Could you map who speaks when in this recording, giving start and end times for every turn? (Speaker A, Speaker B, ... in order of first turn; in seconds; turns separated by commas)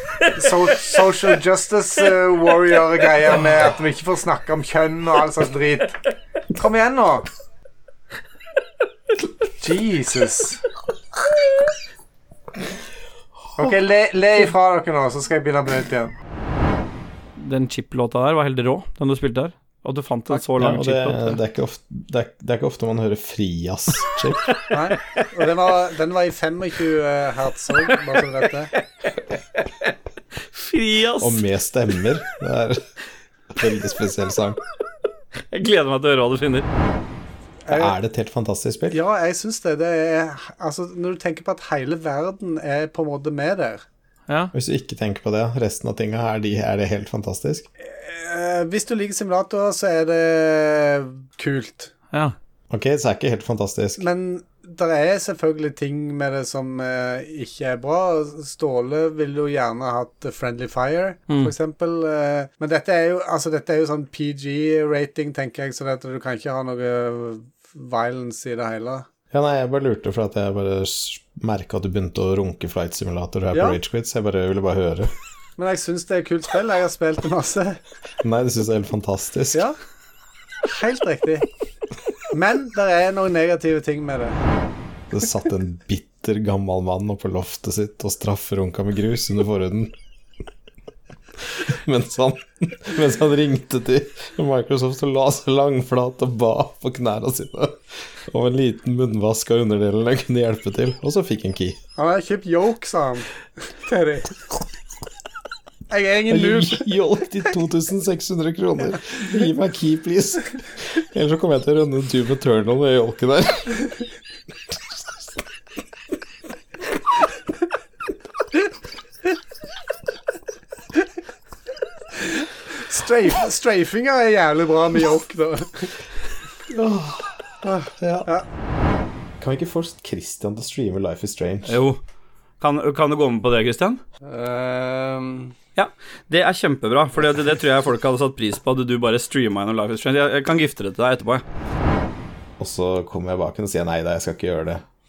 Speaker A: 0.4-5.8, Speaker A: 6.6-7.3, Speaker A: 9.6-10.6, Speaker A: 13.6-16.1, Speaker B: 17.4-21.4, Speaker C: 20.6-24.6, Speaker A: 24.7-28.7, Speaker B: 30.5-31.4, Speaker C: 31.2-32.8, Speaker C: 33.5-34.6, Speaker B: 35.5-36.7, Speaker C: 37.7-39.0, Speaker A: 38.9-43.8, Speaker C: 44.5-47.7, Speaker A: 47.9-51.9, Speaker C: 52.7-54.0, Speaker A: 54.0-69.0, Speaker C: 69.3-75.1, Speaker A: 73.5-73.8, Speaker A: 75.6-77.8, Speaker C: 78.2-79.7, Speaker A: 80.7-81.5, Speaker A: 82.3-84.4, Speaker C: 85.1-89.9, Speaker C: 91.6-101.8, Speaker A: 102.0-103.3, Speaker A: 103.8-104.3, Speaker A: 105.9-106.9, Speaker C: 106.3-113.9, Speaker A: 122.7-125.9, Speaker C: 126.7-128.3, Speaker A: 127.7-128.4, Speaker C: 129.4-131.8, Speaker B: 131.7-132.0, Speaker B: 132.6-134.0, Speaker A: 134.3-135.5, Speaker B: 135.8-141.4, Speaker C: 142.6-144.8